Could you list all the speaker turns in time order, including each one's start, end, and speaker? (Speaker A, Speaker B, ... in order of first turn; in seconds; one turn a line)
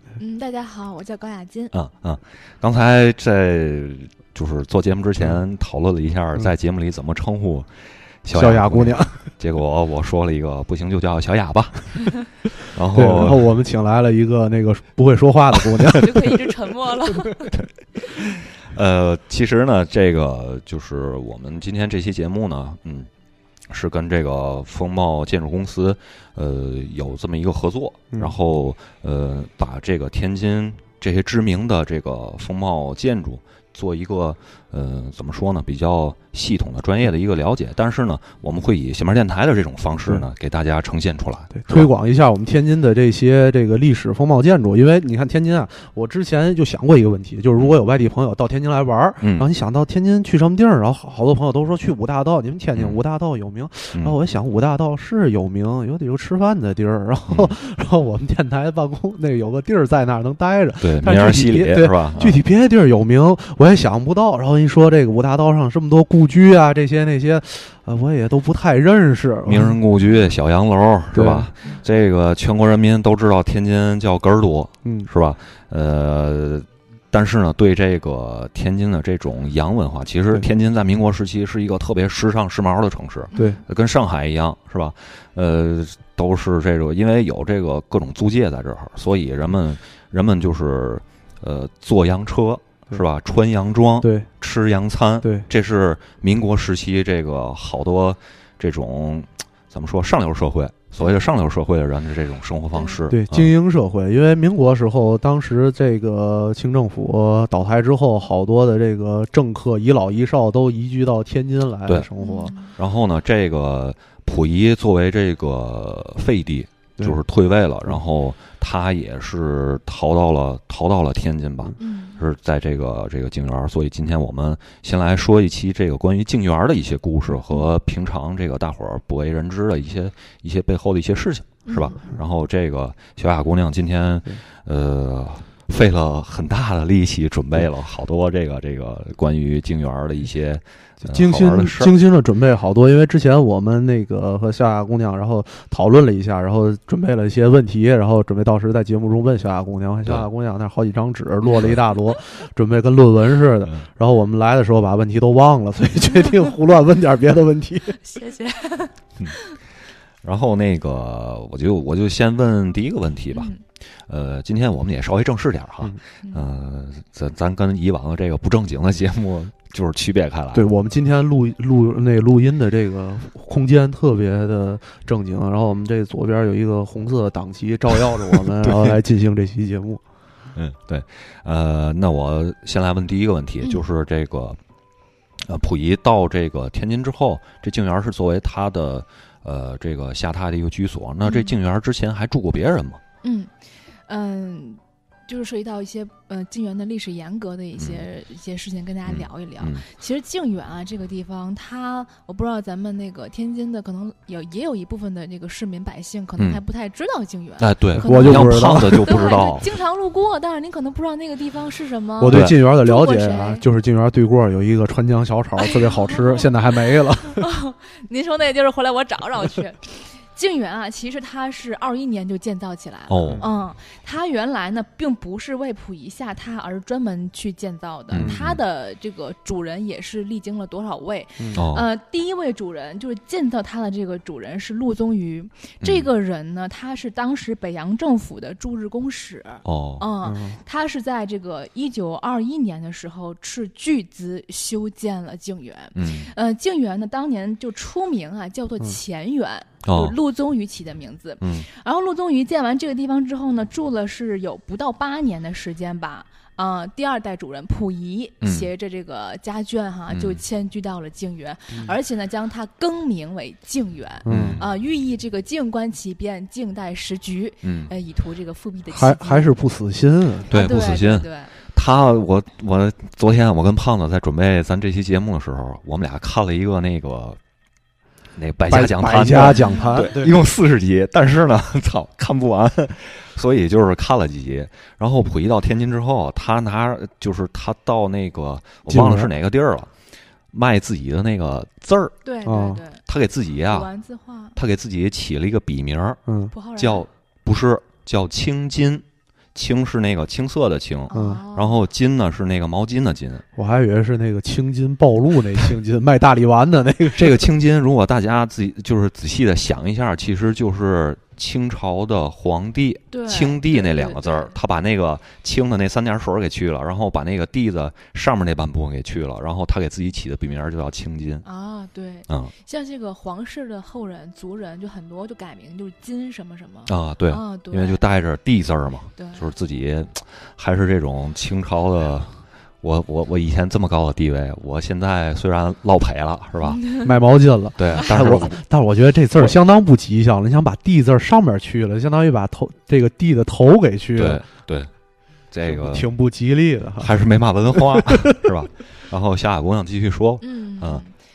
Speaker A: 0.2-1.7
Speaker B: 1.7-7.7
Speaker B: 8.2-13.5
Speaker C: 8.3-9.2
Speaker C: 12.9-16.4
Speaker B: 15.6-15.9
Speaker A: 15.9-17.6
Speaker B: 17.5-23.1
Speaker B: 23.7-41.9
Speaker C: 41.6-69.8
Speaker B: 49.2-49.5
Speaker B: 52.7-53.0
Speaker B: 57.3-57.5
Speaker B: 60.8-62.4
Speaker B: 69.5-103.5
Speaker C: 71.1-71.5
Speaker A: 83.3-83.6
Speaker C: 83.3-83.6
Speaker C: 94.0-94.3
Speaker A: 102.7-103.0
Speaker C: 103.1-112.5
Speaker B: 111.9-141.9
Speaker A: 112.2-112.8
Speaker A: 121.8-122.2
Speaker A: 131.7-132.1
Speaker C: 141.0-158.0
Speaker A: 151.4-151.8
Speaker A: 158.0-159.6
Speaker B: 160.2-163.5
Speaker A: 163.3-163.6
Speaker B: 164.1-170.7
Speaker C: 170.5-180.0
Speaker B: 178.6-178.9
Speaker B: 180.6-184.6
Speaker A: 183.6-183.9
Speaker B: 185.5-193.0
Speaker A: 191.2-191.6
Speaker A: 193.2-193.5
Speaker A: 194.1-213.6
Speaker B: 197.8-198.1
Speaker B: 199.1-199.9
Speaker B: 207.6-209.7
Speaker C: 208.0-209.3
Speaker C: 212.2-217.5
Speaker B: 212.3-212.6
Speaker A: 215.6-216.5
Speaker A: 217.2-269.5
Speaker B: 223.1-223.4
Speaker B: 228.1-228.6
Speaker C: 228.2-228.4
Speaker B: 231.5-231.9
Speaker B: 235.8-236.1
Speaker B: 239.7-240.1
Speaker C: 240.2-240.6
Speaker B: 245.9-246.3
Speaker B: 249.8-250.2
Speaker B: 251.4-251.7
Speaker B: 258.4-258.7
Speaker B: 260.1-260.4
Speaker C: 264.3-264.6
Speaker B: 264.3-264.7
Speaker B: 267.6-267.9
Speaker C: 268.9-270.5
Speaker A: 270.5-271.5
Speaker B: 270.5-277.4
Speaker B: 278.4-289.9
Speaker C: 278.7-280.4
Speaker A: 279.6-280.0
Speaker C: 288.9-289.3
Speaker B: 290.5-292.2
Speaker A: 292.2-293.0
Speaker C: 292.5-292.8
Speaker B: 293.1-293.9
Speaker A: 293.7-294.6
Speaker B: 294.6-296.2
Speaker C: 296.3-296.5
Speaker A: 296.5-297.1
Speaker B: 296.8-303.4
Speaker A: 301.1-301.8
Speaker C: 301.1-301.4
Speaker C: 303.6-307.5
Speaker B: 307.1-321.4
Speaker A: 313.1-314.6
Speaker A: 321.4-328.1
Speaker B: 326.9-337.0
Speaker A: 329.2-329.5
Speaker A: 336.6-337.1
Speaker C: 337.0-344.4
Speaker B: 337.8-338.6
Speaker B: 344.2-344.9
Speaker B: 345.5-346.1
Speaker C: 345.6-347.1
Speaker B: 347.0-351.0
Speaker C: 347.7-348.5
Speaker A: 350.4-351.1